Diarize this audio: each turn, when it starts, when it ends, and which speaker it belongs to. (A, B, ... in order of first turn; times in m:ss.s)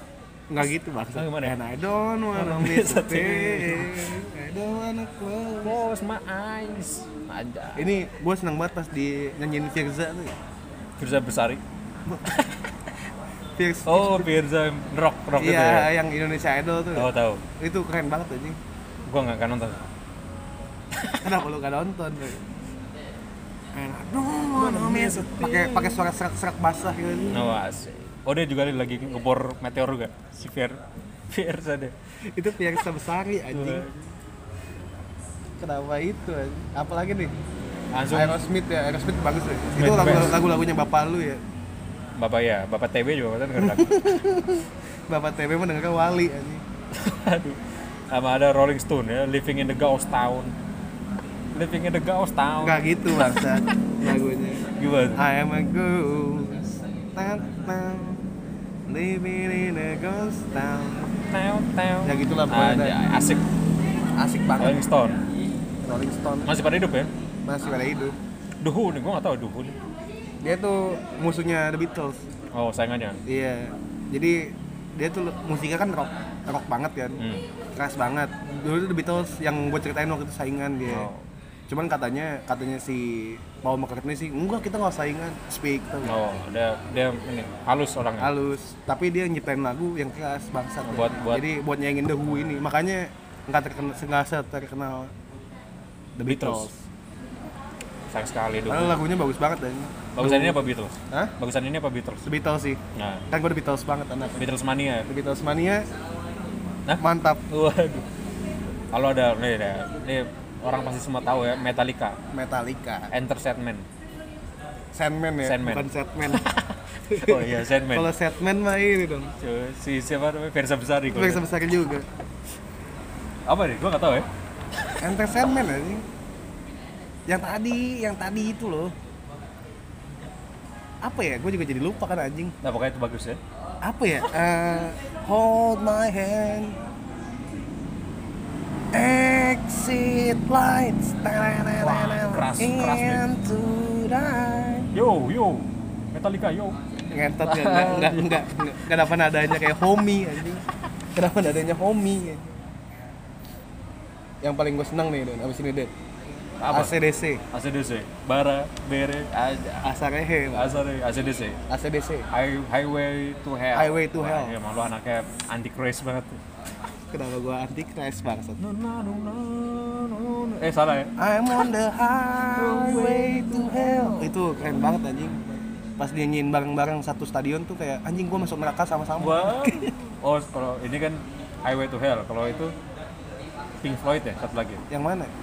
0:00.5-0:05.8 A
0:01.2-0:01.6 B
0:02.3-0:04.1 B
0:05.6-0:07.9 B
0:07.8-0:10.3 A
0:11.0-0:11.6 B
0:12.0-0:12.5 A
0:13.6-0:14.3 A
0:13.9-0:15.9 B
0:15.4-0:18.6 A
0:16.9-0:17.4 B
0:19.1-0:19.8 B
0:20.9-0:21.4 B
0:21.2-0:22.4 A
0:23.7-0:27.6 A
0:24.5-0:26.0 B
0:27.3-0:31.9 B
0:32.3-0:33.9 A
0:33.5-0:34.1 B
0:35.6-0:37.3 A
0:37.9-0:38.4 B
0:38.1-0:41.4 A
0:39.8-0:40.4 B
0:42.2-0:44.0 B
0:43.6-0:46.6 A
0:46.9-0:47.6 B
0:48.1-0:50.5 B
0:51.5-0:53.9 B
0:52.6-0:58.3 A
0:54.8-0:55.2 B
0:58.9-1:01.1 A
1:01.3-1:03.4 B
1:02.0-1:03.2 A
1:04.2-1:04.8 A
1:04.6-1:05.2 B
1:05.8-1:06.5 A
1:06.4-1:07.1 B
1:07.4-1:08.2 A
1:08.6-1:09.8 B
1:10.4-1:12.2 A
1:12.5-1:13.2 B
1:13.2-1:17.2 A
1:17.2-1:17.4 B
1:17.8-1:21.1 A
1:20.9-1:21.2 B
1:21.7-1:26.2 A
1:26.0-1:28.3 B
1:28.2-1:35.1 A
1:30.8-1:31.4 B
1:36.2-1:36.7 A
1:36.2-1:36.7 B
1:38.1-1:39.0 B
1:38.7-1:41.3 A
1:40.1-1:42.3 B
1:42.2-1:44.4 A
1:42.9-1:43.3 B
1:44.4-1:45.1 B
1:45.1-1:45.8 A
1:46.9-1:48.0 B
1:47.0-1:47.4 A
1:48.9-1:52.2 B
1:52.3-1:53.1 A
1:53.1-1:53.9 B
1:54.9-1:56.5 A
1:55.4-1:58.1 B
1:57.1-1:59.3 A
1:59.4-2:01.5 B
2:01.1-2:02.1 A
2:03.5-2:05.0 B
2:05.0-2:06.0 A
2:07.3-2:08.9 A
2:11.0-2:12.6 A
2:12.6-2:13.4 B
2:13.8-2:16.8 A
2:18.9-2:24.9 A
2:21.8-2:23.2 B
2:24.9-2:26.8 B
2:27.1-2:32.6 A
2:27.4-2:28.4 B
2:34.4-2:35.9 A
2:36.6-2:37.0 B
2:36.7-2:37.4 A
2:37.5-2:39.9 B
2:39.8-2:40.8 A
2:40.5-2:41.6 B
2:41.7-2:42.2 A
2:42.3-2:46.4 B
2:43.7-2:44.6 A
2:47.1-2:48.6 A
2:48.6-2:51.1 B
2:51.2-3:00.0 A
2:52.5-2:54.3 B
2:59.2-3:02.7 B
3:03.8-3:04.8 B
3:04.9-3:05.3 A